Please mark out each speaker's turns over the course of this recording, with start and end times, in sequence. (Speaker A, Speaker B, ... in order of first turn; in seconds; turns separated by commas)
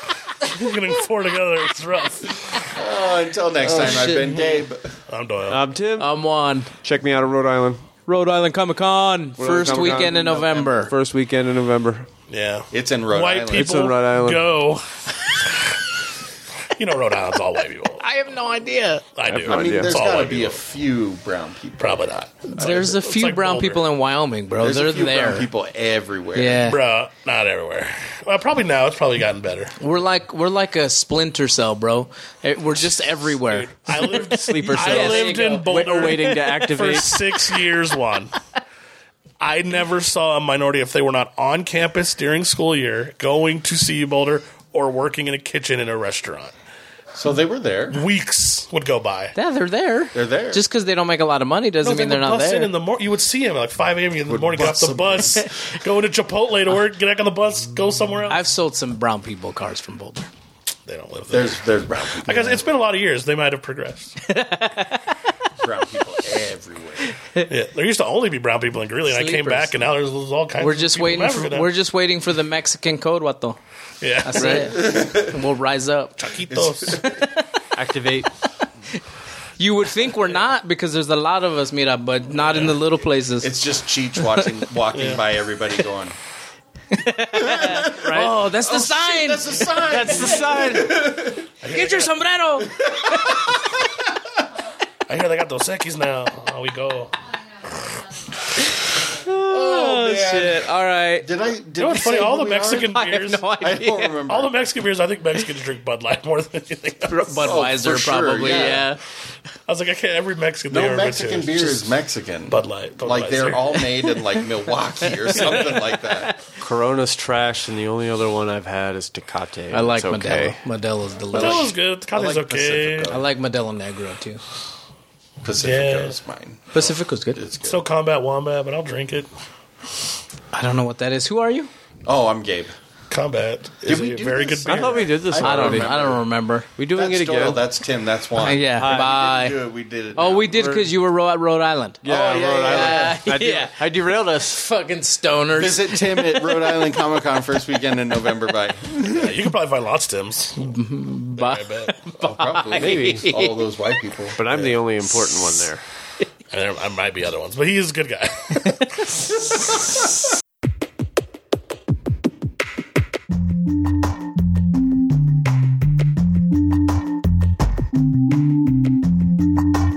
Speaker A: 0.3-2.5, Speaker B: 2.7-5.0, Speaker C: 3.7-4.6, Speaker A: 5.1-5.6, Speaker D: 5.5-6.1, Speaker C: 6.0-6.7, Speaker D: 6.8-7.8, Speaker C: 8.1-10.9, Speaker D: 9.4-12.1, Speaker A: 12.3-15.0, Speaker B: 12.7-13.8, Speaker D: 13.5-14.4, Speaker A: 16.8-18.0, Speaker C: 18.0-19.1, Speaker A: 19.1-20.6, Speaker D: 19.3-19.9, Speaker B: 19.4-22.8, Speaker A: 21.8-23.9, Speaker C: 22.5-25.5, Speaker B: 24.6-26.7, Speaker C: 26.3-26.8, Speaker A: 26.6-29.8, Speaker C: 29.8-36.4, Speaker A: 33.4-38.3, Speaker D: 33.9-37.2, Speaker A: 39.4-46.5, Speaker B: 47.1-48.0, Speaker A: 47.9-49.3, Speaker C: 49.3-52.7, Speaker B: 50.1-50.6, Speaker A: 51.8-58.4, Speaker B: 54.3-55.4, Speaker C: 58.3-60.3, Speaker A: 60.9-64.2, Speaker B: 61.3-62.6, Speaker C: 64.2-65.1, Speaker B: 65.6-67.1, Speaker A: 67.5-71.7, Speaker C: 69.1-69.7, Speaker C: 70.6-73.6, Speaker A: 74.0-74.8, Speaker C: 74.2-76.2, Speaker B: 74.7-75.4, Speaker A: 76.2-77.0, Speaker B: 76.5-77.3, Speaker C: 76.9-77.4, Speaker D: 77.7-78.3, Speaker C: 79.6-83.5, Speaker B: 83.4-86.2, Speaker A: 84.9-85.2, Speaker C: 86.9-90.9, Speaker B: 87.3-91.5, Speaker D: 89.9-90.9, Speaker A: 91.6-92.2, Speaker C: 91.7-93.5, Speaker B: 93.0-93.8, Speaker A: 95.1-97.1, Speaker C: 99.2-101.3, Speaker B: 99.5-100.7, Speaker B: 101.2-104.5, Speaker A: 101.8-103.5, Speaker C: 102.8-104.2, Speaker A: 104.2-107.5, Speaker C: 107.0-109.0, Speaker B: 107.4-108.9, Speaker A: 108.4-108.9, Speaker A: 109.7-111.9, Speaker B: 110.7-116.3, Speaker A: 112.5-113.8, Speaker A: 115.4-115.6, Speaker C: 116.0-116.4, Speaker D: 116.6-120.6, Speaker C: 119.7-121.7, Speaker B: 121.3-123.3, Speaker A: 121.3-123.1, Speaker C: 123.1-124.4, Speaker B: 125.4-127.8, Speaker A: 125.6-126.2, Speaker C: 126.7-127.4, Speaker A: 127.6-129.3, Speaker C: 130.5-131.7, Speaker B: 132.0-132.7, Speaker A: 133.1-135.2, Speaker B: 133.8-136.2, Speaker D: 134.6-135.9, Speaker C: 135.4-136.7, Speaker D: 136.8-137.6, Speaker B: 136.9-140.8, Speaker C: 138.4-139.6, Speaker D: 138.8-139.1, Speaker C: 140.1-142.0, Speaker D: 140.5-140.9, Speaker D: 142.0-144.6, Speaker B: 142.0-143.2, Speaker C: 142.6-143.7, Speaker C: 144.5-146.8, Speaker B: 145.5-149.4, Speaker A: 149.1-150.7, Speaker C: 150.6-153.4, Speaker A: 151.4-151.9, Speaker B: 152.2-154.8, Speaker D: 152.7-153.5, Speaker D: 154.4-155.8, Speaker A: 156.5-159.2